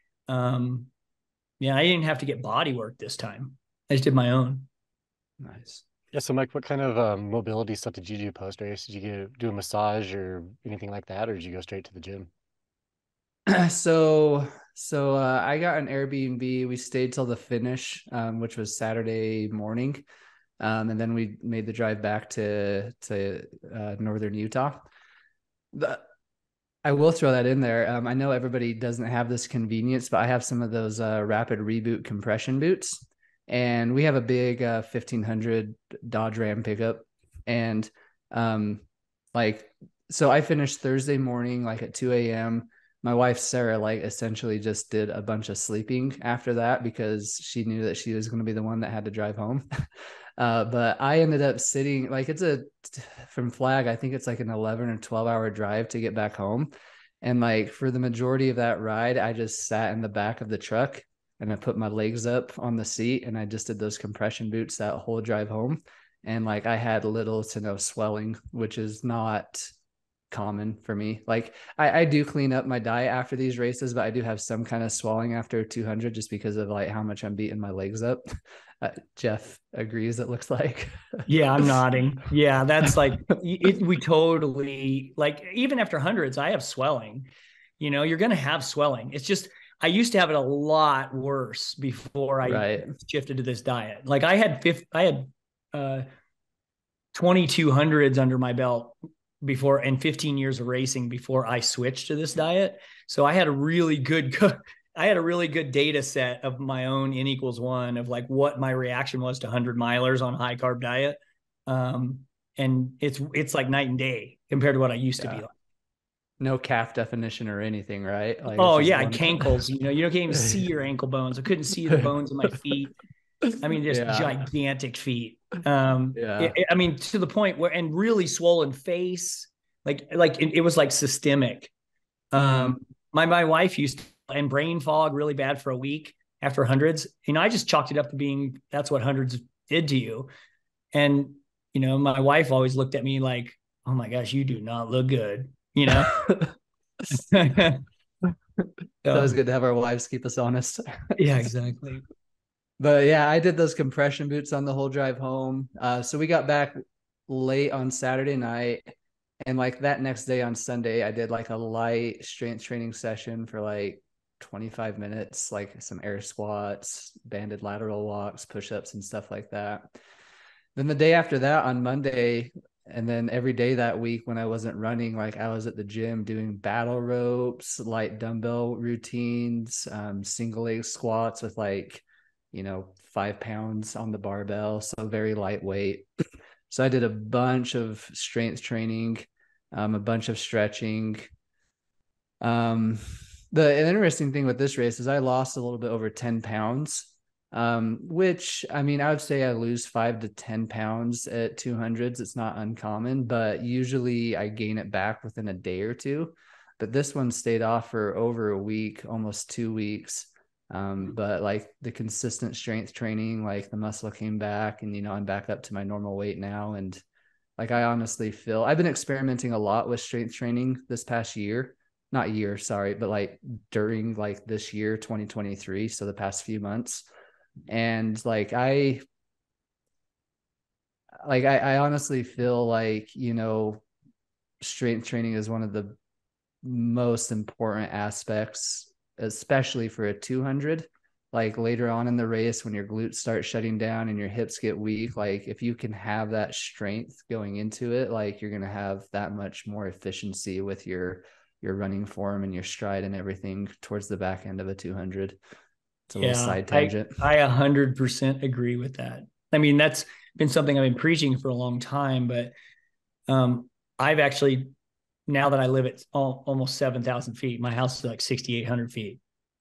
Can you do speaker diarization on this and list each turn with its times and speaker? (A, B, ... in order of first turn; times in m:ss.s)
0:00.3-0:00.9 A
0:01.6-0:04.7 A
0:05.4-0:05.8 B
0:06.1-0:12.3 C
0:13.5-0:20.0 B
0:20.6-0:24.9 B
0:25.7-0:26.0 B
0:26.8-0:49.7 B
0:50.4-0:56.7 B
0:57.2-1:09.7 B
1:10.3-1:18.2 B
1:18.8-1:21.7 B
1:21.3-1:27.3 A
1:27.8-1:36.0 A
1:32.4-1:32.9 B
1:37.1-1:55.5 A
1:56.4-1:59.6 B
1:58.5-2:02.9 A
2:03.6-2:11.7 A
2:03.9-2:04.4 B
2:06.2-2:06.5 B
2:12.3-2:20.3 A
2:12.4-2:12.8 B
2:20.9-2:26.2 A
2:26.0-2:26.5 B
2:27.1-2:27.8 A
2:28.6-2:31.2 B
2:29.0-2:29.3 A
2:31.2-2:32.0 A
2:32.8-2:38.9 B
2:39.4-2:49.9 B
2:50.8-3:06.1 B
3:06.7-3:11.3 B
3:12.4-3:37.0 B
3:37.6-3:47.0 B
3:47.7-3:49.0 B
3:51.2-3:53.8 B
3:54.6-3:56.0 B
3:56.6-4:15.4 B
4:16.1-4:17.2 B
4:16.2-4:22.5 A
4:23.3-4:24.7 A
4:25.3-4:29.2 A